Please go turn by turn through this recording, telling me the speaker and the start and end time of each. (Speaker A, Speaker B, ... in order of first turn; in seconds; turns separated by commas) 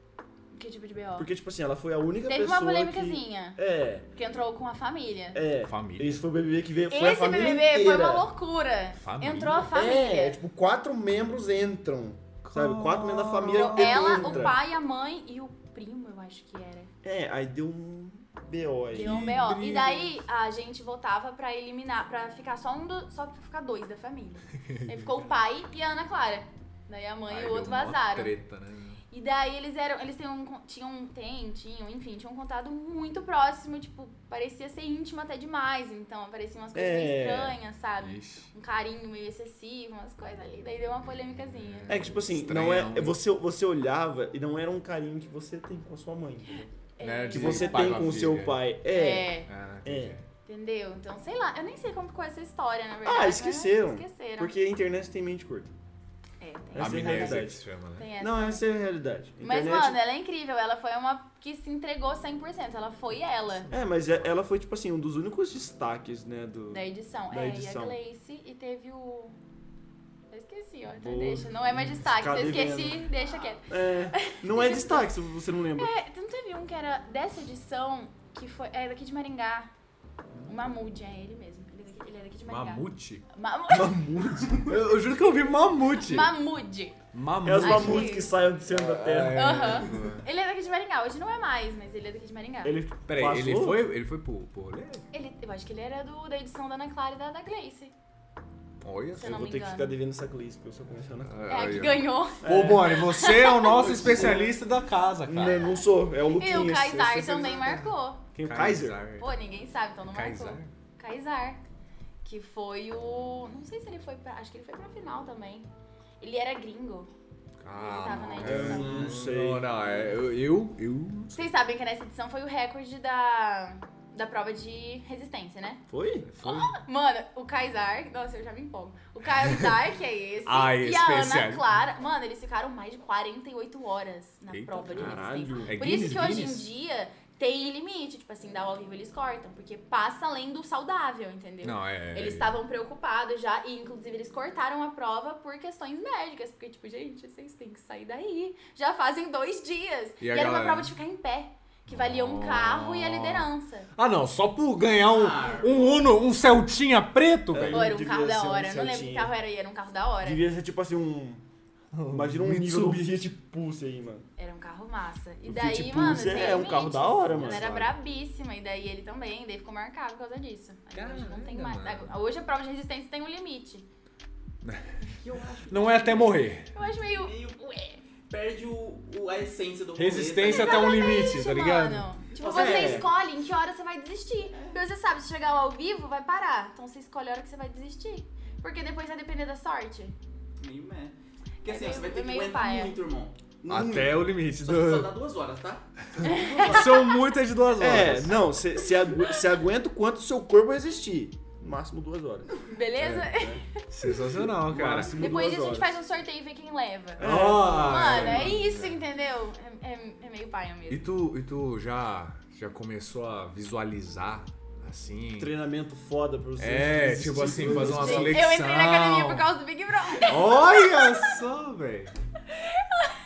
Speaker A: 0.5-1.3, Speaker B: 1.2-4.1, Speaker A: 2.3-3.6, Speaker A: 4.2-5.4, Speaker B: 5.3-8.3, Speaker C: 5.7-6.2, Speaker A: 6.9-10.4, Speaker C: 9.0-9.7, Speaker B: 9.7-14.6, Speaker C: 12.4-14.5, Speaker A: 13.5-16.9, Speaker B: 17.0-19.2, Speaker C: 18.9-20.2, Speaker A: 18.9-28.3, Speaker C: 24.7-25.2, Speaker C: 27.3-29.0, Speaker A: 29.1-42.0, Speaker B: 36.8-37.6, Speaker C: 38.0-38.5, Speaker C: 41.5-43.2, Speaker B: 41.9-46.7, Speaker A: 47.0-48.0, Speaker C: 47.0-48.6, Speaker B: 47.3-50.1, Speaker A: 48.9-49.5, Speaker C: 49.5-50.2, Speaker A: 50.5-54.5, Speaker B: 53.0-55.7, Speaker A: 56.4-58.6, Speaker B: 56.8-57.6, Speaker C: 56.8-58.1, Speaker B: 58.2-60.0, Speaker A: 59.4-63.7, Speaker B: 63.7-68.0, Speaker A: 66.7-69.4, Speaker A: 70.3-75.1, Speaker B: 70.9-73.1, Speaker B: 73.7-75.9, Speaker A: 75.8-79.7, Speaker A: 80.5-84.0, Speaker C: 82.5-83.3, Speaker B: 83.7-84.9, Speaker C: 84.7-86.3, Speaker A: 86.0-87.0, Speaker C: 87.1-90.2, Speaker B: 87.4-89.9, Speaker A: 87.6-88.3, Speaker A: 89.3-92.8, Speaker B: 92.6-93.9, Speaker C: 93.1-95.1, Speaker A: 95.1-97.9, Speaker C: 98.8-99.3, Speaker B: 99.2-101.4, Speaker A: 99.2-100.0, Speaker C: 101.2-105.6, Speaker A: 101.5-104.2, Speaker B: 102.4-103.0, Speaker B: 103.7-104.6, Speaker B: 105.3-109.0, Speaker A: 106.4-108.2, Speaker C: 108.4-109.3, Speaker A: 109.2-111.6, Speaker C: 110.1-110.7, Speaker A: 112.2-115.7, Speaker A: 116.2-117.1, Speaker C: 117.6-121.4, Speaker A: 117.8-119.2, Speaker B: 118.4-119.8, Speaker A: 121.3-125.8, Speaker B: 125.9-126.3, Speaker C: 126.3-126.8, Speaker A: 126.4-153.9, Speaker C: 130.5-131.7, Speaker C: 134.5-136.7, Speaker B: 134.9-136.5, Speaker C: 141.6-142.6, Speaker C: 150.2-150.9, Speaker C: 151.9-157.9, Speaker D: 155.1-156.0, Speaker B: 157.5-159.3, Speaker A: 157.7-160.4, Speaker B: 160.2-161.4, Speaker C: 161.9-163.3, Speaker B: 162.1-164.3, Speaker A: 164.4-173.9, Speaker B: 165.4-167.9, Speaker C: 167.2-167.9, Speaker C: 170.9-172.1, Speaker C: 174.6-175.0, Speaker D: 175.1-177.6, Speaker C: 175.7-176.7, Speaker A: 176.7-178.0, Speaker D: 178.3-181.0, Speaker C: 180.0-182.1, Speaker A: 180.4-190.1, Speaker D: 182.4-183.1, Speaker B: 182.5-183.1, Speaker D: 190.6-196.8, Speaker A: 191.6-193.0, Speaker C: 193.7-195.1, Speaker B: 193.7-194.1, Speaker C: 196.2-198.4, Speaker A: 196.2-197.2, Speaker B: 197.8-202.5, Speaker A: 202.7-203.8, Speaker C: 203.0-205.2, Speaker B: 203.3-203.6, Speaker B: 204.6-206.0, Speaker A: 205.2-211.1, Speaker B: 207.2-208.6, Speaker C: 207.2-209.0, Speaker C: 210.9-215.5, Speaker B: 215.4-218.5, Speaker C: 216.6-219.5, Speaker A: 217.6-221.3, Speaker C: 220.2-222.1, Speaker A: 222.5-223.2